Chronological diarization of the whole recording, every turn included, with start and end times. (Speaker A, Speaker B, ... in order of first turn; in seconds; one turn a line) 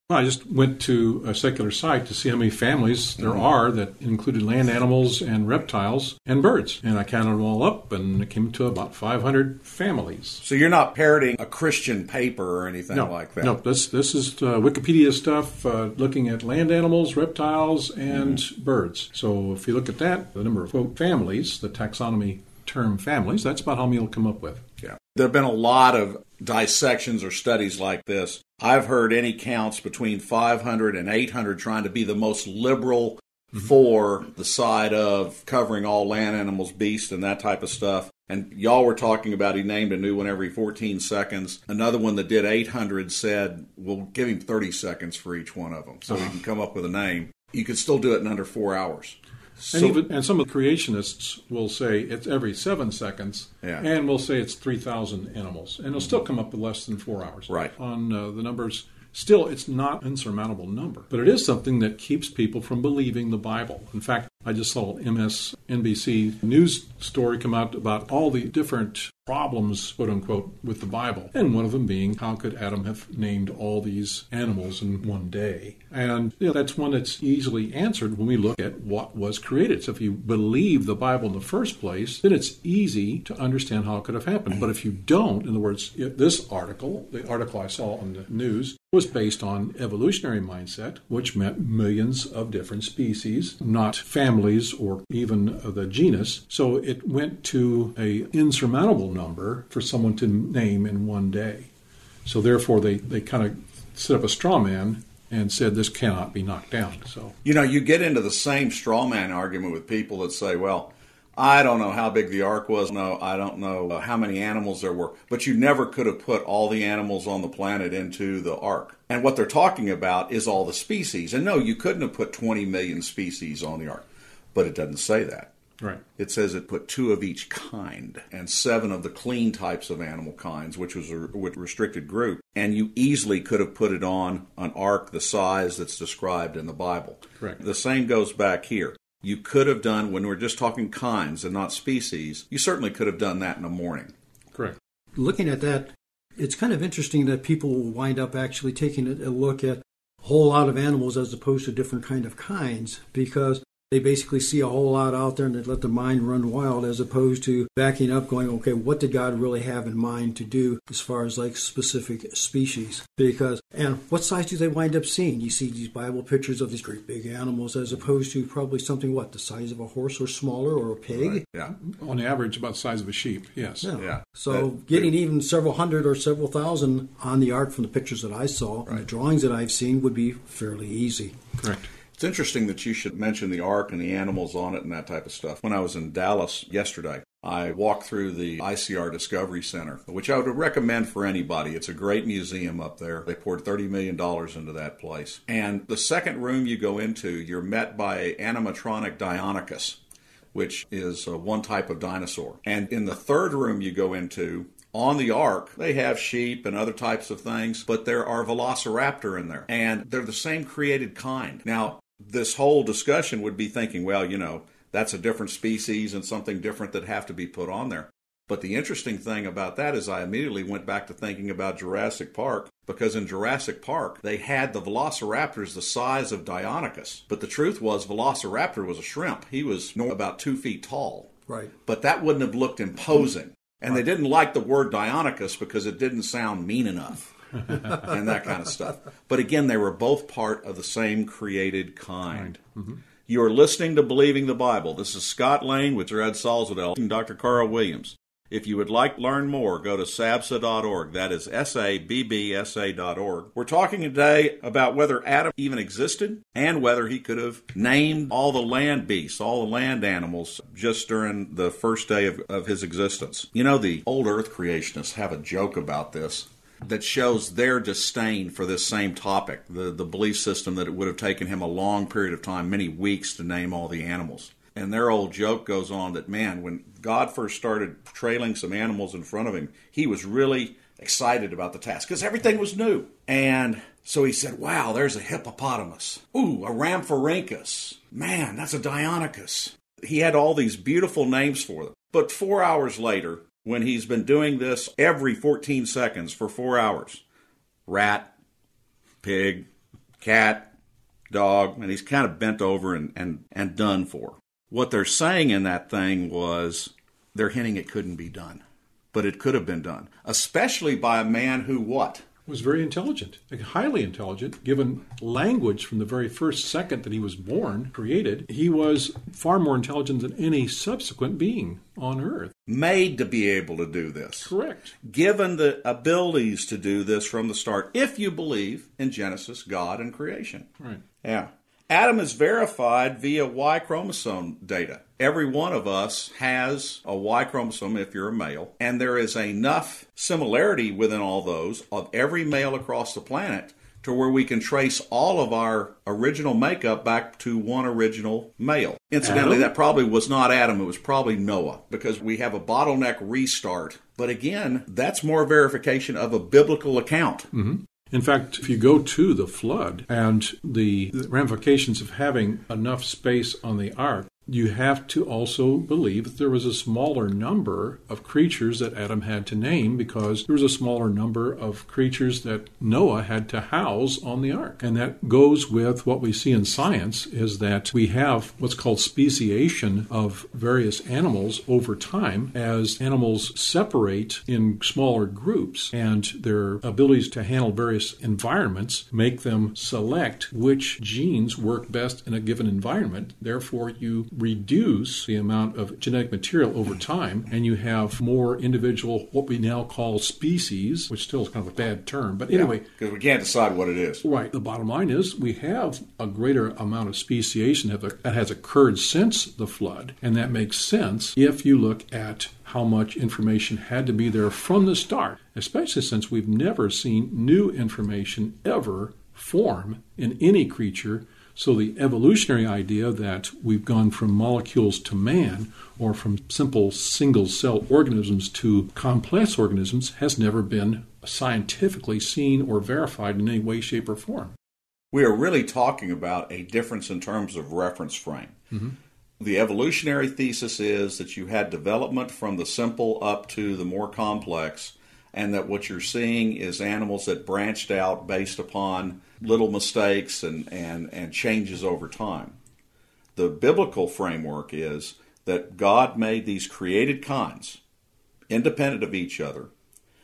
Speaker A: 0.1-10.4
Speaker B: 3.2-3.5
Speaker B: 10.4-13.6
Speaker A: 12.9-24.6
Speaker B: 18.1-18.4
Speaker B: 24.8-50.0
Speaker A: 46.1-46.3
Speaker A: 49.7-101.7
Speaker A: 102.2-107.3
Speaker B: 107.4-125.5
Speaker B: 126.2-144.1
Speaker C: 145.1-171.4
Speaker B: 171.1-171.7
Speaker A: 171.6-173.9
Speaker C: 173.8-181.4
Speaker B: 174.0-175.1
Speaker A: 181.6-181.9
Speaker B: 182.2-200.0
Speaker B: 200.5-237.3
Speaker C: 231.5-231.7
Speaker B: 237.9-242.6
Speaker A: 242.3-243.0
Speaker B: 243.2-297.2
Speaker B: 297.9-298.3
Speaker B: 299.2-299.7
Speaker B: 300.2-300.7
Speaker B: 301.3-312.2
Speaker A: 312.5-322.5
Speaker B: 322.7-324.5
Speaker A: 324.4-324.9
Speaker B: 325.0-330.6
Speaker B: 331.2-357.5
Speaker A: 349.2-349.7
Speaker A: 357.5-402.9
Speaker B: 402.5-404.2
Speaker A: 404.2-434.5
Speaker B: 435.1-438.5
Speaker B: 439.4-452.6
Speaker B: 453.4-457.8
Speaker B: 458.5-459.7